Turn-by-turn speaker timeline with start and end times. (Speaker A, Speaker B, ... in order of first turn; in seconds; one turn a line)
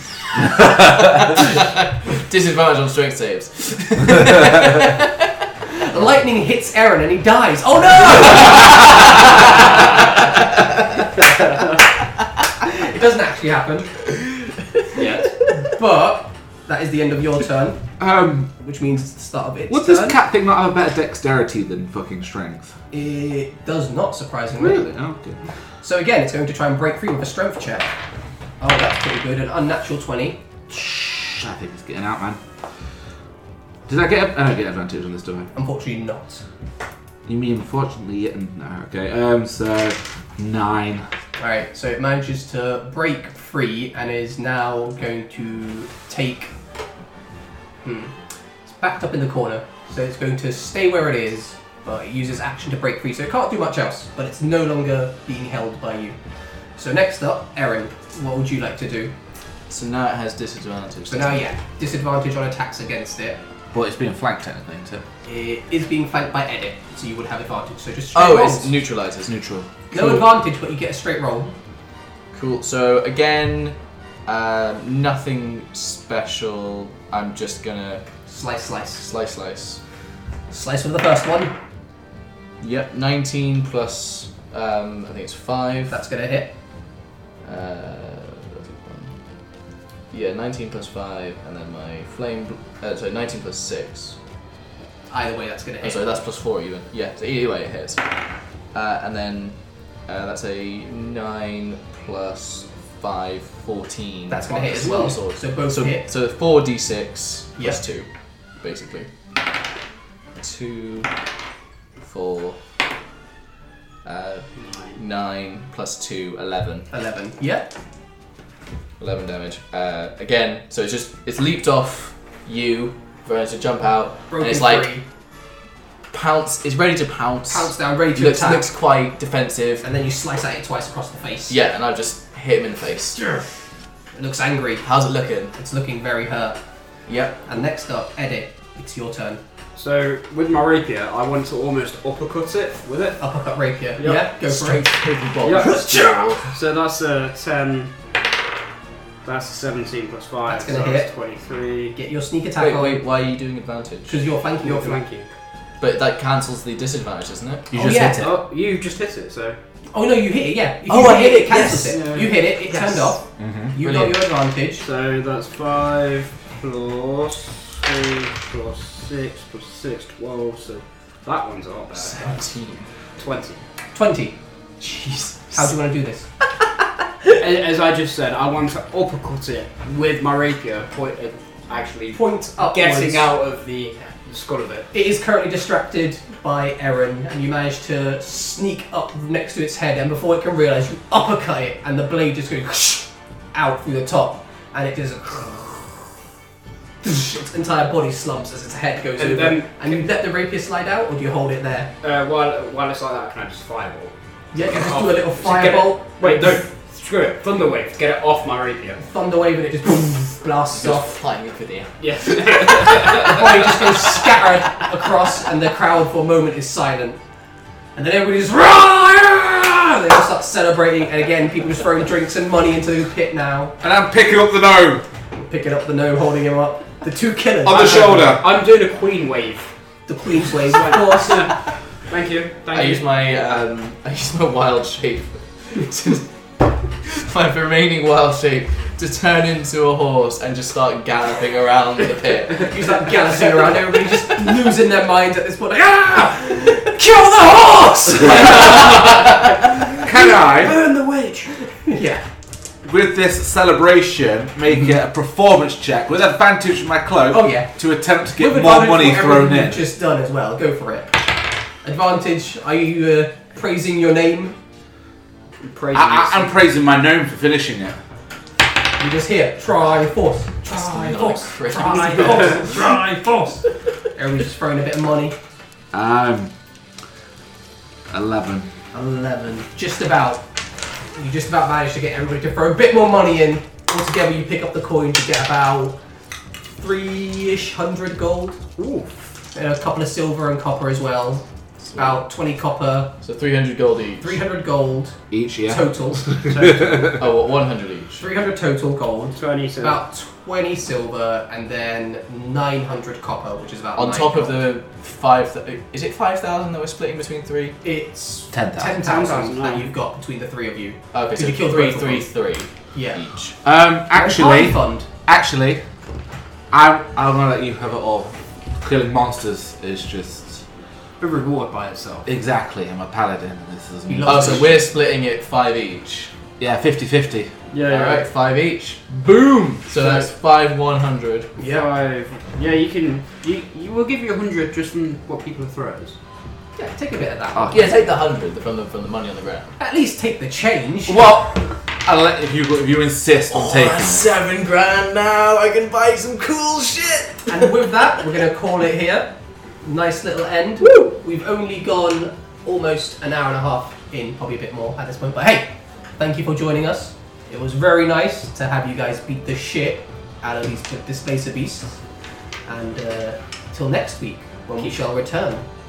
Speaker A: 1.2-5.5
Speaker B: 5.7-9.5
Speaker A: 8.1-9.2
Speaker B: 12.6-13.9
Speaker C: 15.0-15.3
Speaker B: 15.6-17.8
Speaker D: 18.0-18.5
Speaker B: 18.6-20.2
Speaker D: 19.7-22.8
Speaker B: 22.9-25.0
Speaker D: 24.6-25.4
Speaker B: 25.8-27.9
Speaker B: 28.6-30.4
Speaker D: 31.2-32.4
Speaker D: 33.9-35.5
Speaker B: 35.5-36.5
Speaker D: 37.2-41.1
Speaker B: 41.4-46.5
Speaker B: 47.8-48.1
Speaker B: 48.6-56.1
Speaker B: 56.8-59.1
Speaker A: 59.7-61.4
Speaker B: 61.1-63.4
Speaker D: 63.7-65.0
Speaker B: 65.2-68.7
Speaker A: 68.1-69.3
Speaker D: 69.2-69.7
Speaker A: 69.9-70.3
Speaker B: 69.9-71.5
Speaker A: 72.3-78.0
Speaker B: 78.3-79.1
Speaker A: 79.0-79.8
Speaker B: 80.5-81.5
Speaker A: 82.6-86.0
Speaker B: 85.9-86.5
Speaker A: 87.4-89.1
Speaker A: 90.1-94.2
Speaker B: 95.1-96.1
Speaker A: 95.8-98.0
Speaker A: 98.7-109.1
Speaker B: 104.3-106.1
Speaker A: 110.4-111.1
Speaker A: 112.0-112.6
Speaker A: 114.0-116.9
Speaker B: 116.9-117.7
Speaker A: 119.0-124.9
Speaker B: 124.3-125.0
Speaker A: 126.1-129.8
Speaker B: 127.5-128.7
Speaker B: 129.8-131.6
Speaker A: 131.5-133.2
Speaker B: 133.2-133.4
Speaker B: 134.1-134.8
Speaker A: 134.8-135.5
Speaker B: 135.5-136.6
Speaker A: 137.1-137.4
Speaker B: 137.4-139.4
Speaker C: 139.7-143.2
Speaker B: 143.2-144.9
Speaker C: 144.0-144.2
Speaker A: 144.4-146.4
Speaker C: 145.4-145.8
Speaker B: 145.5-146.4
Speaker C: 146.4-147.9
Speaker C: 149.2-152.0
Speaker B: 150.5-151.1
Speaker B: 151.9-153.0
Speaker A: 152.6-154.2
Speaker B: 154.1-155.0
Speaker C: 154.6-155.3
Speaker A: 155.8-158.0
Speaker D: 157.7-158.3
Speaker B: 157.8-158.2
Speaker C: 158.1-159.6
Speaker B: 159.9-164.8
Speaker A: 160.9-162.0
Speaker C: 161.9-163.1
Speaker D: 163.4-163.7
Speaker A: 163.8-164.2
Speaker C: 164.8-172.4
Speaker A: 171.9-172.9
Speaker C: 173.2-173.6
Speaker B: 173.9-176.3
Speaker C: 177.4-184.9
Speaker B: 182.1-183.3
Speaker B: 184.9-196.0
Speaker B: 197.0-201.9
Speaker C: 199.2-200.1
Speaker C: 202.0-209.0
Speaker B: 204.5-206.6
Speaker B: 209.0-211.1
Speaker A: 210.7-212.0
Speaker C: 212.0-213.7
Speaker B: 212.8-217.2
Speaker A: 212.9-213.2
Speaker B: 217.9-223.8
Speaker D: 223.8-225.0
Speaker B: 225.3-228.4
Speaker D: 227.6-228.4
Speaker C: 227.7-229.7
Speaker B: 230.1-231.5
Speaker C: 230.7-233.1
Speaker A: 232.7-243.4
Speaker B: 242.6-249.2
Speaker C: 248.5-249.0
Speaker D: 250.0-250.8
Speaker C: 250.1-251.9
Speaker B: 251.9-252.2
Speaker D: 252.8-259.9
Speaker B: 257.3-257.7
Speaker B: 258.4-261.3
Speaker B: 261.8-264.6
Speaker C: 265.6-266.5
Speaker D: 265.9-268.0
Speaker B: 269.0-275.4
Speaker A: 270.7-272.8
Speaker C: 271.8-272.7
Speaker D: 275.9-276.5
Speaker D: 278.1-278.7
Speaker B: 278.9-280.4
Speaker B: 281.1-286.0
Speaker B: 286.7-288.6
Speaker C: 288.8-289.3
Speaker B: 289.5-291.4
Speaker A: 291.9-292.2
Speaker B: 291.9-293.1
Speaker A: 293.2-294.4
Speaker B: 294.2-297.1
Speaker D: 295.3-297.2
Speaker A: 297.1-298.2
Speaker B: 298.1-304.7
Speaker C: 299.3-300.0
Speaker A: 303.9-307.8
Speaker B: 307.8-312.3
Speaker D: 308.5-309.0
Speaker C: 309.0-309.9
Speaker A: 311.1-313.6
Speaker B: 312.9-313.2
Speaker D: 313.6-315.8
Speaker B: 314.1-315.1
Speaker D: 316.7-320.6
Speaker C: 321.2-322.3
Speaker D: 322.2-324.8
Speaker B: 324.1-324.8
Speaker A: 324.2-326.3
Speaker D: 326.6-327.5
Speaker C: 327.7-328.3
Speaker A: 327.9-329.0
Speaker D: 329.0-329.9
Speaker A: 329.9-331.5
Speaker B: 331.6-331.9
Speaker C: 331.6-336.2
Speaker B: 336.8-338.0
Speaker A: 337.6-339.7
Speaker B: 339.8-341.2
Speaker D: 341.1-344.3
Speaker A: 343.5-347.9
Speaker B: 347.5-362.0
Speaker B: 362.6-365.6